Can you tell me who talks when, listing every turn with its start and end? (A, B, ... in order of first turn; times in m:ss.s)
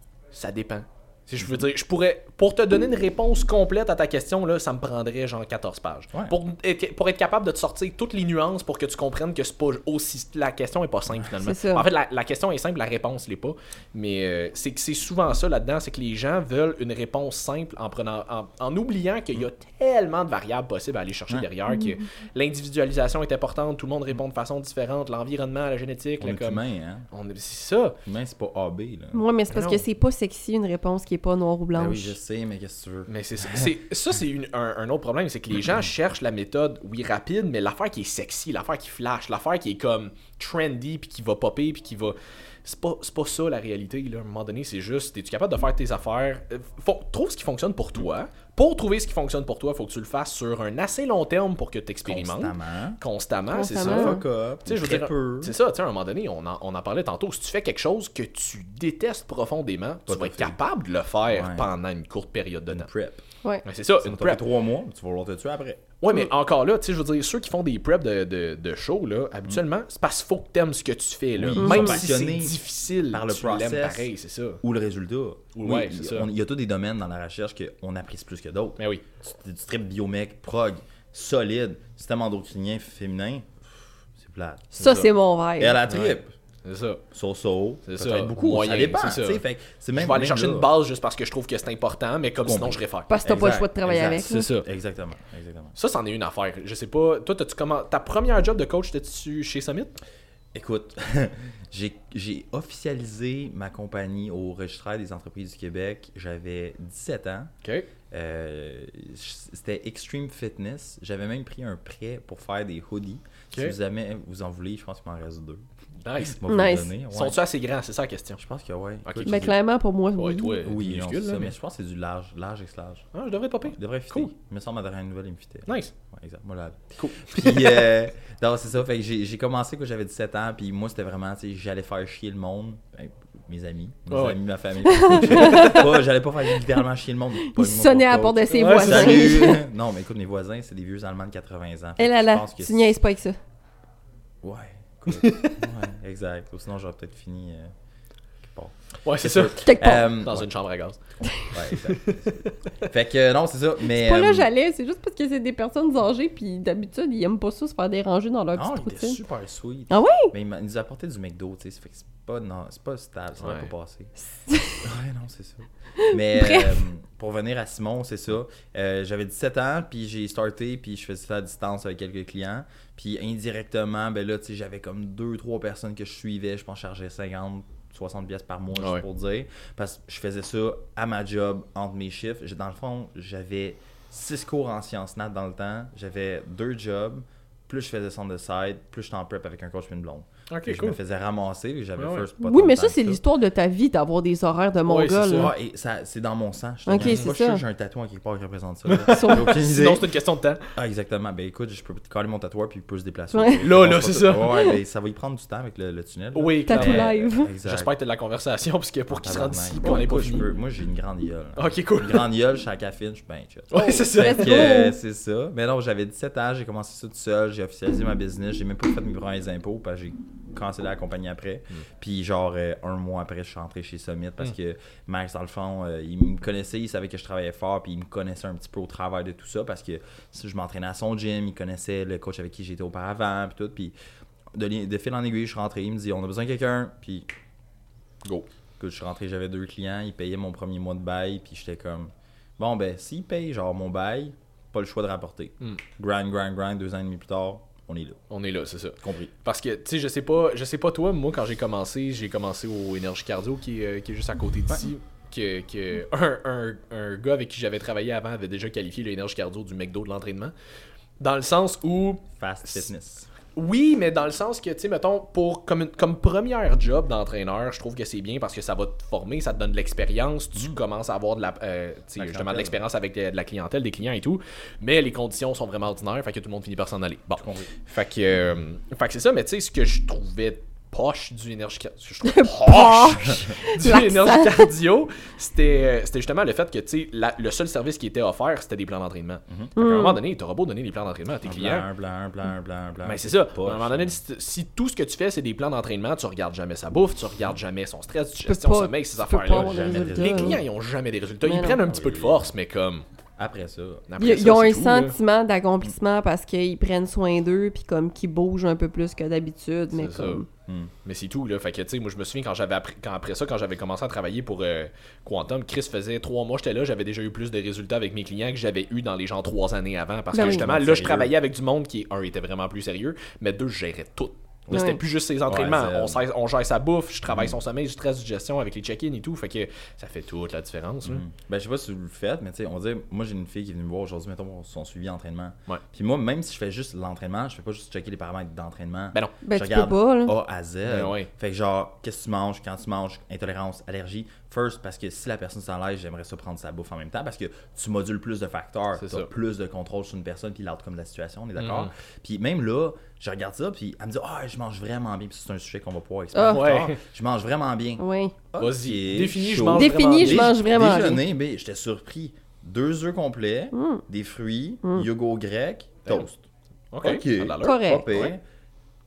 0:00.3-0:28.0 A
0:11.4-0:11.8 B
0:21.7-0:22.0 B
0:26.2-0:27.0 C
0:28.0-0:29.2 C
0:29.1-0:32.2 B
0:29.5-0:29.8 A
0:31.7-0:33.7 C
0:33.1-1:02.9 A
0:52.0-0:53.0 C
0:53.5-0:54.2 B
0:53.8-0:55.5 C
1:00.1-1:00.6 C
1:01.3-1:01.6 C
1:02.7-1:03.2 C
1:03.6-1:04.4 A
1:04.0-1:05.9 C
1:06.0-1:14.6 A
1:11.4-1:14.1 C
1:11.6-1:12.0 B
1:14.6-1:25.1 C
1:15.5-1:16.3 A
1:18.8-1:19.0 A
1:24.8-1:25.8 B
1:25.6-1:26.3 C
1:25.9-1:27.0 A
1:27.1-1:30.7 C
1:27.9-1:29.4 A
1:30.0-1:33.1 A
1:32.4-1:35.7 C
1:33.1-1:34.4 B
1:34.2-1:34.6 A
1:35.8-1:40.0 A
1:40.5-1:47.5 C
1:48.1-1:55.6 C
1:56.0-1:56.4 A
1:56.2-1:57.4 C
1:56.5-1:56.9 B
1:57.0-1:58.4 A
1:58.4-1:59.5 C
1:59.0-1:59.5 A
1:59.2-2:00.7 B
2:00.2-2:01.5 A
2:00.6-2:03.1 C
2:03.1-2:04.3 A
2:03.7-2:22.9 C
2:05.7-2:05.9 A
2:07.0-2:07.8 A
2:14.1-2:14.4 A
2:14.8-2:15.8 B
2:15.1-2:15.8 A
2:17.4-2:19.6 B
2:18.5-2:19.4 A
2:22.0-2:23.4 B
2:24.4-2:27.7 C
2:25.2-2:25.6 A
2:28.4-2:30.5 C
2:29.0-2:31.0 A
2:29.6-2:30.0 B
2:31.3-2:34.5 C
2:31.7-2:32.5 A
2:34.0-2:39.2 B
2:38.5-2:44.1 C
2:39.9-2:40.3 B
2:43.4-2:43.7 A
2:44.4-2:44.8 B
2:44.8-3:13.2 C
2:46.0-2:46.8 B
2:58.8-2:59.0 A
3:10.5-3:11.0 A
3:12.0-3:12.3 A
3:12.4-3:15.5 B
3:14.9-3:15.5 A
3:15.3-3:20.1 C
3:16.8-3:17.6 B
3:17.0-3:17.3 A
3:18.9-3:20.6 A
3:19.1-3:19.5 B
3:20.7-3:27.9 C
3:23.3-3:23.6 B
3:23.6-3:24.5 A
3:26.3-3:30.4 A
3:26.7-3:27.5 B
3:29.1-3:53.9 C
3:31.6-3:32.3 A
3:33.7-3:34.6 A
3:33.7-3:35.0 B
3:54.5-3:57.3 C
3:58.8-4:08.2 C
4:08.3-4:20.5 A
4:09.0-4:09.3 C
4:21.2-4:22.9 A
4:22.3-4:23.3 C
4:23.5-4:51.8 A
4:32.2-4:32.8 C
4:37.4-4:37.7 C
4:42.2-4:44.7 B
4:43.0-4:43.5 C
4:49.8-4:50.2 B
4:51.4-4:54.2 C
4:53.0-5:03.0 A
4:58.4-5:00.6 B
4:59.5-5:00.6 C
5:01.4-5:01.8 B
5:01.6-5:02.5 C
5:03.4-5:04.0 C
5:04.1-5:05.1 A
5:04.2-5:10.4 B
5:09.9-5:10.4 A
5:10.6-5:10.9 C
5:11.0-5:31.2 A
5:20.3-5:20.7 B
5:20.4-5:21.3 C
5:24.7-5:25.0 B
5:25.5-5:26.2 C
5:27.3-5:27.5 C
5:31.0-6:06.5 C
5:39.4-5:40.3 B
5:40.8-5:41.3 A
5:49.0-5:49.3 A
5:51.6-5:51.9 A
5:56.3-5:56.6 B
5:56.5-5:57.0 A
5:58.0-5:58.3 B
5:58.6-6:00.6 A
5:59.7-6:01.2 B
6:03.7-6:04.0 B
6:06.9-6:08.3 A
6:07.0-6:08.4 C
6:07.6-6:08.2 B